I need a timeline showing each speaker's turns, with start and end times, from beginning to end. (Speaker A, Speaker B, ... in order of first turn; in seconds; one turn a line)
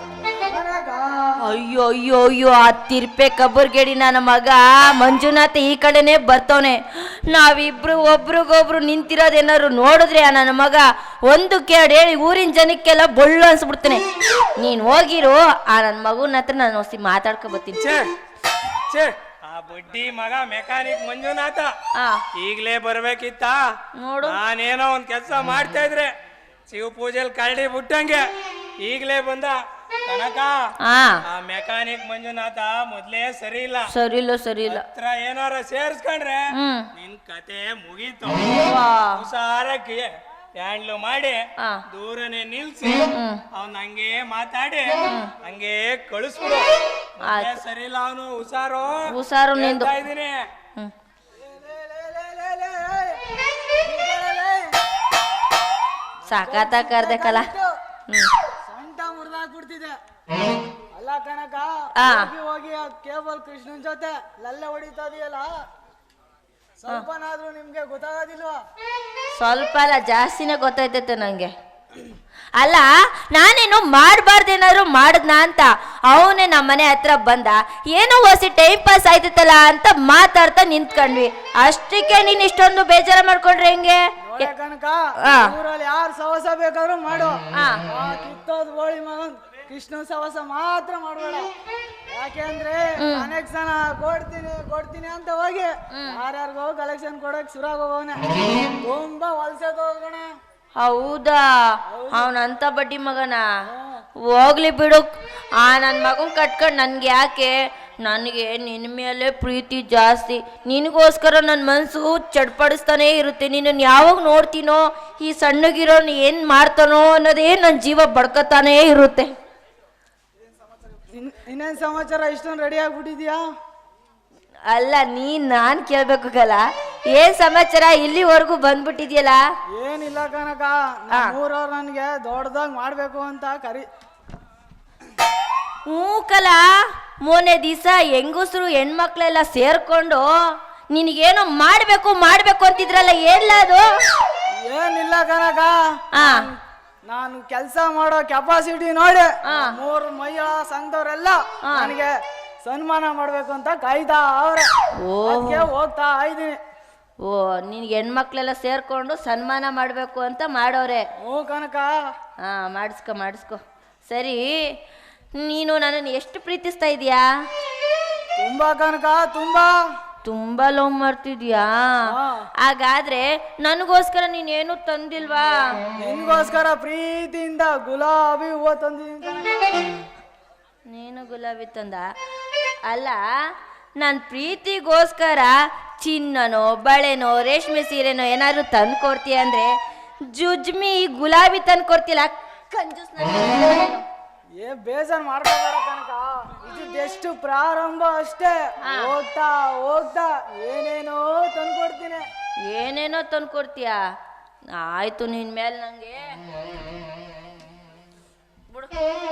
Speaker A: 0.3-1.3
Speaker B: 1.5-17.9
Speaker C: 17.8-18.0
Speaker C: 18.9-21.7
Speaker B: 21.9-22.2
Speaker C: 22.3-23.6
Speaker B: 24.0-24.4
Speaker C: 24.2-26.1
Speaker C: 26.7-28.3
Speaker C: 28.8-30.7
Speaker B: 30.8-31.2
Speaker C: 31.3-33.9
Speaker B: 33.9-34.8
Speaker C: 34.7-50.5
Speaker B: 36.5-36.9
Speaker B: 38.6-39.2
Speaker B: 43.1-43.4
Speaker B: 45.0-45.3
Speaker B: 47.2-47.6
Speaker B: 49.1-50.0
Speaker A: 51.4-53.2
Speaker A: 53.7-54.7
Speaker B: 56.3-57.5
Speaker A: 56.4-57.7
Speaker A: 58.7-60.0
Speaker A: 60.9-65.5
Speaker B: 62.0-62.3
Speaker A: 66.8-68.6
Speaker B: 69.4-71.5
Speaker B: 72.6-84.5
Speaker A: 84.2-91.5
Speaker B: 85.2-85.5
Speaker B: 87.5-87.8
Speaker A: 92.1-98.2
Speaker B: 93.0-93.3
Speaker B: 95.9-96.2
Speaker A: 98.8-100.3
Speaker B: 100.8-103.4
Speaker A: 101.9-102.3
Speaker A: 103.7-104.0
Speaker B: 104.2-105.1
Speaker B: 105.6-119.3
Speaker A: 121.1-123.4
Speaker B: 124.7-129.4
Speaker A: 129.7-133.9
Speaker B: 135.9-136.6
Speaker B: 137.2-140.3
Speaker B: 140.9-143.9
Speaker A: 144.7-154.7
Speaker B: 146.2-146.5
Speaker B: 149.5-149.7
Speaker B: 151.7-151.9
Speaker B: 155.0-155.7
Speaker A: 155.2-156.6
Speaker B: 157.2-161.1
Speaker A: 161.2-161.9
Speaker B: 162.4-164.5
Speaker B: 165.3-167.2
Speaker A: 168.4-169.7
Speaker B: 170.2-175.6
Speaker A: 172.1-172.5
Speaker A: 176.0-179.8
Speaker B: 180.9-182.1
Speaker B: 182.9-183.2
Speaker B: 184.0-189.7
Speaker B: 190.3-194.0
Speaker A: 194.6-202.2
Speaker B: 198.8-199.1
Speaker B: 202.7-204.0
Speaker B: 204.7-206.4
Speaker B: 208.7-209.1